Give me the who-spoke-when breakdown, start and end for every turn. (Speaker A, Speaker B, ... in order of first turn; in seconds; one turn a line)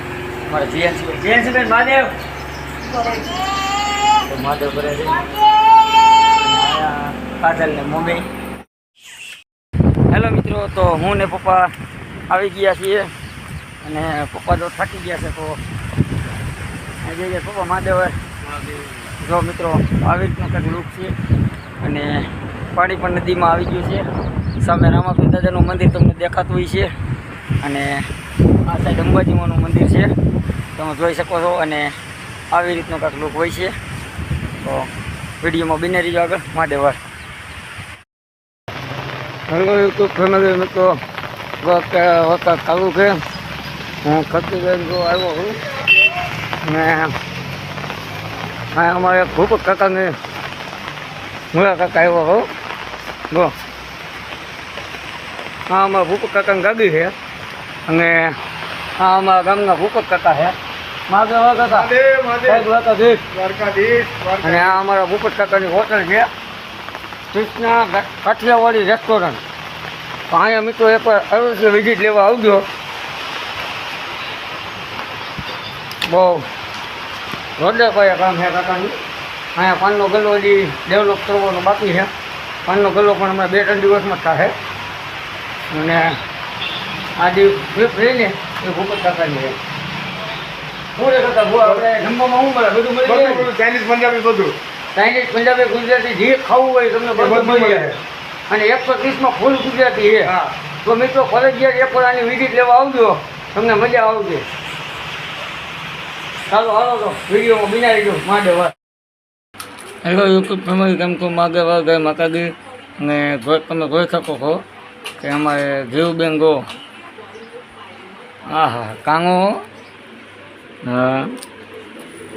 Speaker A: 0.5-2.1
Speaker A: 3.0-3.2
Speaker A: 4.2-5.3
Speaker A: 6.3-8.3
Speaker A: 10.1-11.7
Speaker A: 12.3-13.1
Speaker A: 13.8-15.6
Speaker A: 17.0-18.2
Speaker A: 19.0-21.1
Speaker A: 21.8-24.1
Speaker A: 24.6-26.9
Speaker A: 27.6-28.1
Speaker A: 28.6-30.1
Speaker A: 30.7-31.9
Speaker A: 32.5-33.7
Speaker A: 34.6-37.0
Speaker A: 39.5-41.0
Speaker A: 41.6-43.2
Speaker A: 44.0-45.6
Speaker A: 46.6-47.1
Speaker A: 48.7-50.1
Speaker A: 51.5-52.5
Speaker A: 55.7-57.1
Speaker A: 57.9-58.4
Speaker A: 59.0-60.5
Speaker A: 61.1-63.2
Speaker B: 61.7-62.6
Speaker B: 63.3-64.7
Speaker A: 64.4-66.3
Speaker A: 67.3-69.4
Speaker A: 70.3-72.7
Speaker A: 76.0-76.5
Speaker A: 77.6-79.0
Speaker A: 79.5-82.1
Speaker A: 82.7-84.5
Speaker A: 85.7-86.2
Speaker A: 87.2-89.6
Speaker A: 91.0-93.5
Speaker B: 93.1-94.6
Speaker A: 94.9-104.5
Speaker B: 97.2-97.9
Speaker A: 106.5-108.7
Speaker A: 110.0-114.6
Speaker A: 115.2-116.6
Speaker A: 118.5-119.6
Speaker A: 120.8-121.3